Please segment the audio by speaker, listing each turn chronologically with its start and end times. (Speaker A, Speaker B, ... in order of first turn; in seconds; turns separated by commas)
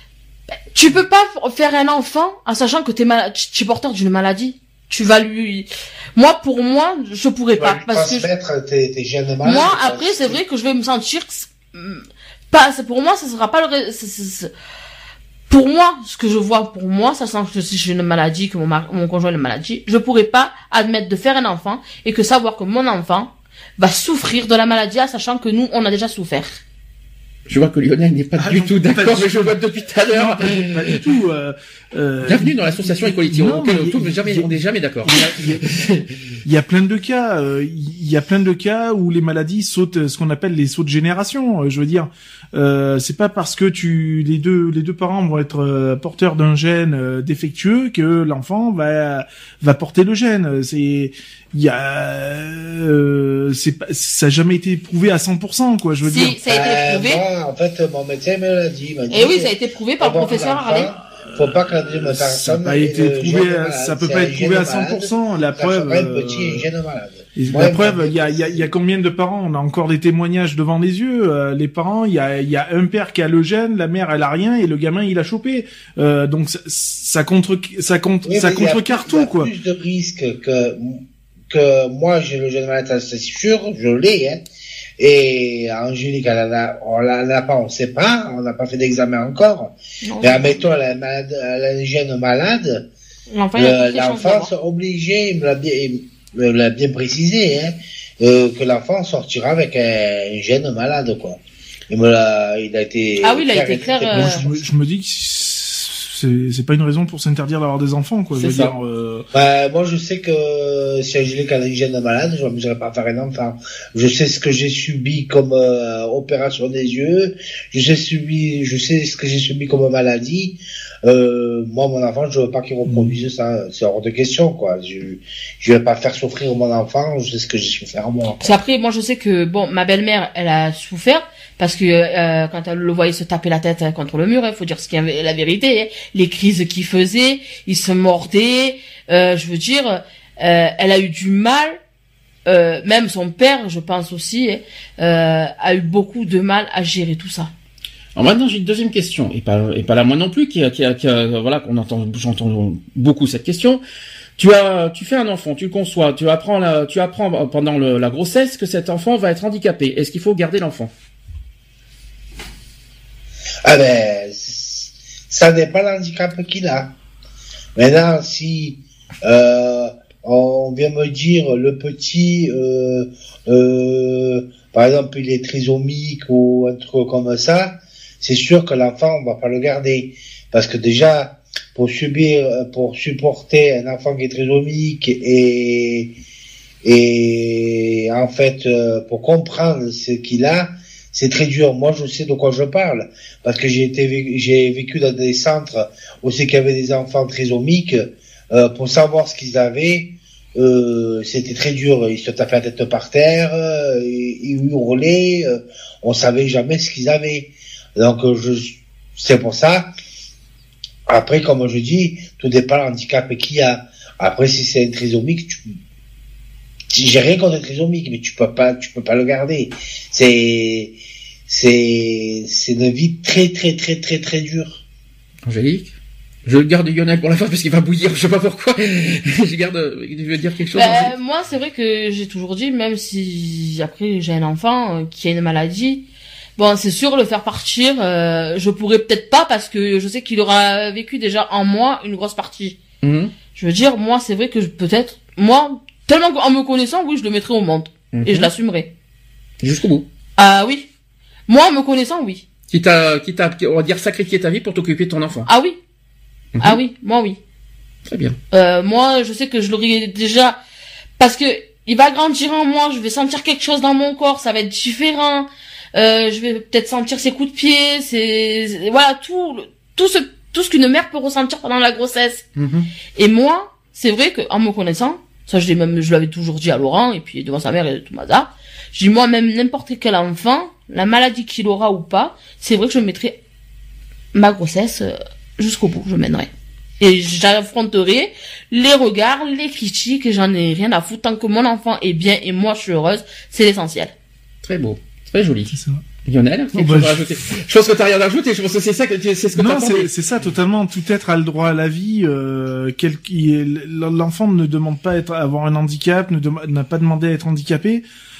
Speaker A: 0.7-8.3, Speaker B: 7.6-10.4, Speaker A: 9.4-14.5, Speaker A: 15.5-26.6, Speaker C: 27.5-31.0, Speaker D: 28.4-29.6, Speaker D: 30.1-35.7, Speaker C: 32.2-36.1, Speaker D: 36.4-56.4, Speaker A: 56.0-57.2, Speaker B: 56.5-68.7, Speaker A: 59.1-60.9, Speaker D: 61.1-66.6, Speaker D: 67.4-79.5, Speaker B: 78.2-84.4, Speaker B: 85.0-92.9, Speaker A: 90.0-90.6, Speaker A: 93.3-94.5, Speaker B: 93.5-101.4, Speaker B: 101.9-104.6, Speaker A: 103.2-104.4, Speaker D: 104.1-109.2, Speaker C: 108.3-108.7, Speaker B: 109.3-128.4, Speaker D: 122.9-123.2, Speaker A: 128.4-141.8, Speaker A: 142.4-147.5, Speaker C: 148.1-153.8, Speaker C: 154.4-160.9, Speaker B: 163.6-166.9, Speaker B: 167.8-186.1, Speaker B: 186.8-209.9, Speaker B: 211.1-215.7, Speaker B: 216.9-220.9, Speaker B: 221.5-224.8, Speaker C: 225.4-225.9, Speaker C: 226.4-231.1, Speaker A: 230.7-236.0, Speaker A: 236.6-242.8, Speaker C: 243.0-243.3, Speaker A: 243.5-248.9, Speaker C: 248.1-248.5, Speaker C: 249.6-250.1, Speaker A: 250.4-250.9, Speaker A: 251.5-252.4, Speaker C: 252.7-255.5, Speaker A: 255.5-255.8, Speaker A: 256.6-257.4, Speaker C: 258.1-258.4, Speaker A: 258.5-260.6, Speaker A: 261.2-272.4, Speaker C: 272.6-272.9, Speaker A: 273.1-283.4, Speaker A: 284.3-294.1, Speaker C: 294.6-300.1, Speaker D: 295.7-296.0, Speaker D: 296.7-297.2, Speaker D: 299.5-308.0